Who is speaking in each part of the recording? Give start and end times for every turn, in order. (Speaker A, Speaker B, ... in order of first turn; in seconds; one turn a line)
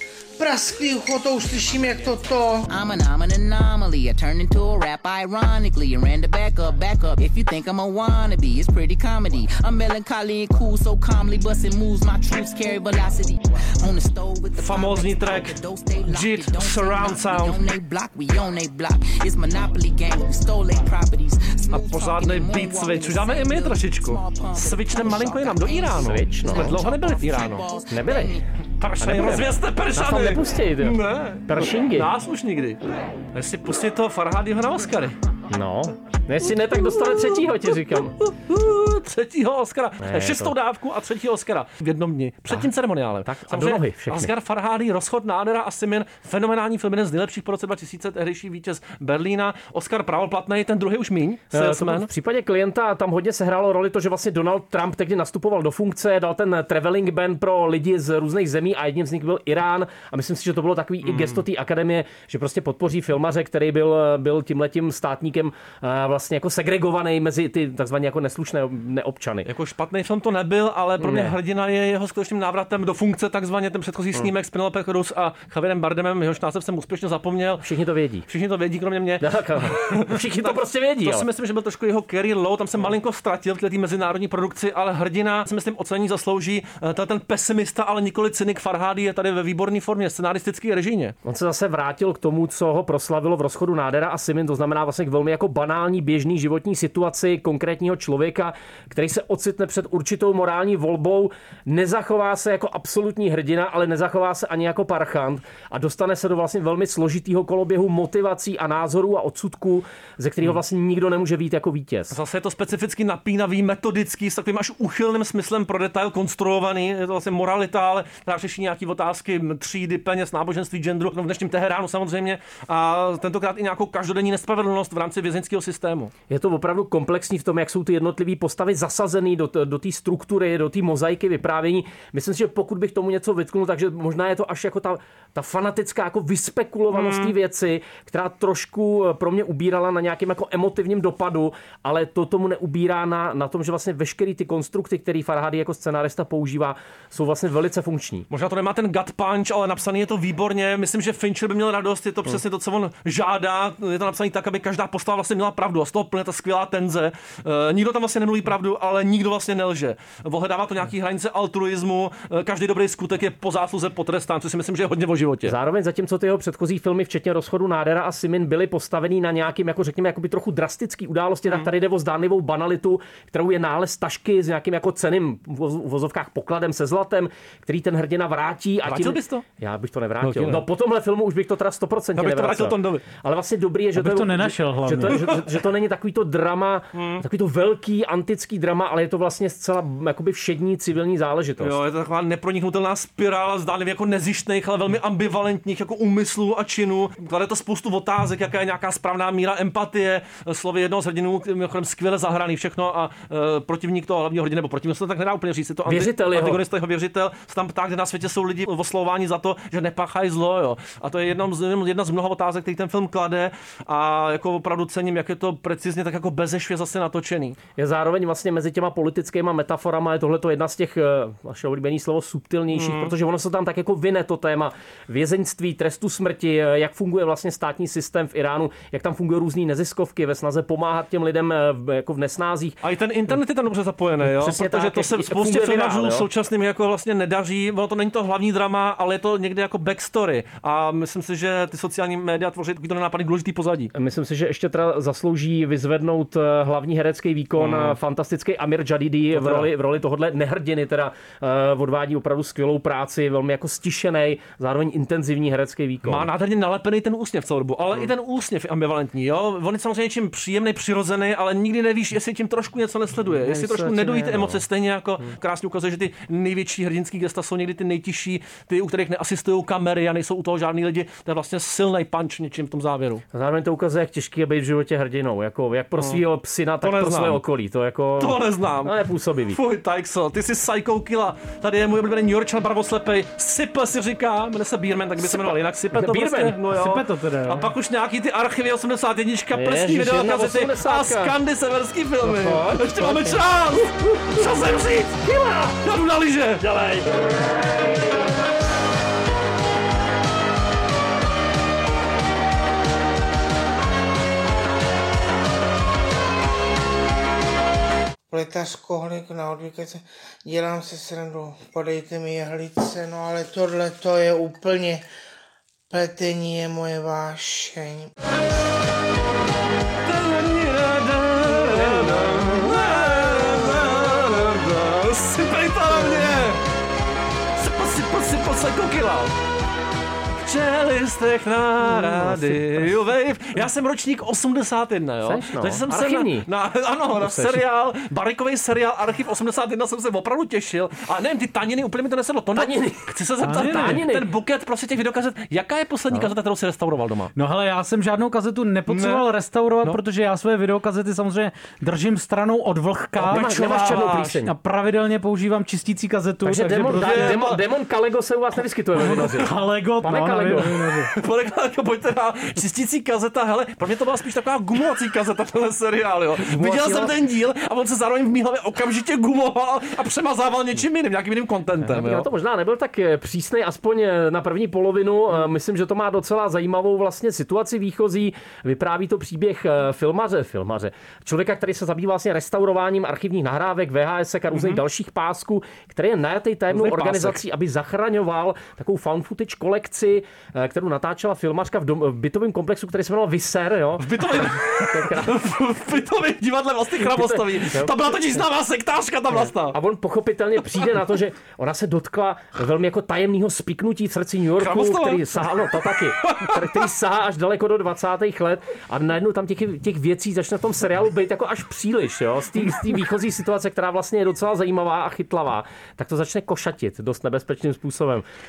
Speaker A: 0.4-2.7
Speaker B: 2.7-28.5
Speaker C: 14.6-17.6
Speaker C: 21.7-27.7
Speaker D: 26.0-26.8
Speaker D: 27.9-28.4
Speaker C: 28.8-32.8
Speaker D: 29.0-32.1
Speaker C: 33.3-35.2
Speaker D: 35.5-38.1
Speaker C: 36.5-52.1
Speaker D: 40.0-40.5
Speaker D: 43.2-44.3
Speaker D: 51.5-69.5
Speaker C: 61.0-61.4
Speaker C: 69.5-77.7
Speaker D: 71.0-71.3
Speaker D: 77.6-78.3
Speaker C: 78.3-91.2
Speaker D: 79.2-81.3
Speaker D: 91.2-112.2
Speaker C: 112.1-126.1
Speaker D: 126.3-148.3
Speaker C: 136.9-137.3
Speaker C: 148.3-165.6
Speaker D: 165.4-191.8
Speaker C: 178.8-179.4
Speaker C: 180.2-180.7
Speaker C: 182.2-183.0
Speaker E: 184.0-185.3
Speaker C: 186.9-187.2
Speaker C: 191.6-217.6
Speaker D: 205.9-206.6
Speaker D: 217.8-232.8
Speaker C: 222.7-223.1
Speaker C: 232.8-243.9
Speaker D: 234.2-236.3
Speaker D: 243.9-256.3
Speaker C: 247.6-248.0
Speaker C: 249.3-249.7
Speaker C: 256.1-273.2
Speaker D: 263.2-264.6
Speaker D: 273.3-279.6
Speaker C: 276.0-276.2
Speaker C: 276.8-277.4
Speaker C: 278.2-278.9
Speaker C: 279.5-297.0
Speaker D: 285.2-286.6
Speaker E: 286.7-287.7
Speaker D: 289.5-291.4
Speaker D: 292.2-293.4
Speaker D: 295.2-295.7
Speaker D: 296.7-297.0
Speaker A: 308.3-315.1
Speaker A: 315.9-318.1
Speaker C: 320.1-326.6
Speaker D: 321.6-322.7
Speaker C: 327.6-329.3
Speaker C: 330.4-347.3
Speaker D: 331.8-332.9
Speaker D: 335.2-336.5
Speaker D: 337.2-337.6
Speaker D: 342.6-344.3
Speaker E: 343.4-344.0
Speaker E: 347.4-357.4
Speaker C: 348.9-349.3
Speaker D: 353.2-354.5
Speaker C: 353.3-354.3
Speaker D: 356.4-360.7
Speaker C: 356.9-357.6
Speaker E: 359.0-361.1
Speaker C: 361.1-372.3
Speaker D: 366.4-367.1
Speaker D: 371.8-395.4
Speaker C: 384.5-384.8
Speaker C: 386.7-387.4
Speaker C: 394.0-399.8
Speaker D: 397.0-398.4
Speaker D: 399.3-418.2
Speaker C: 404.6-406.9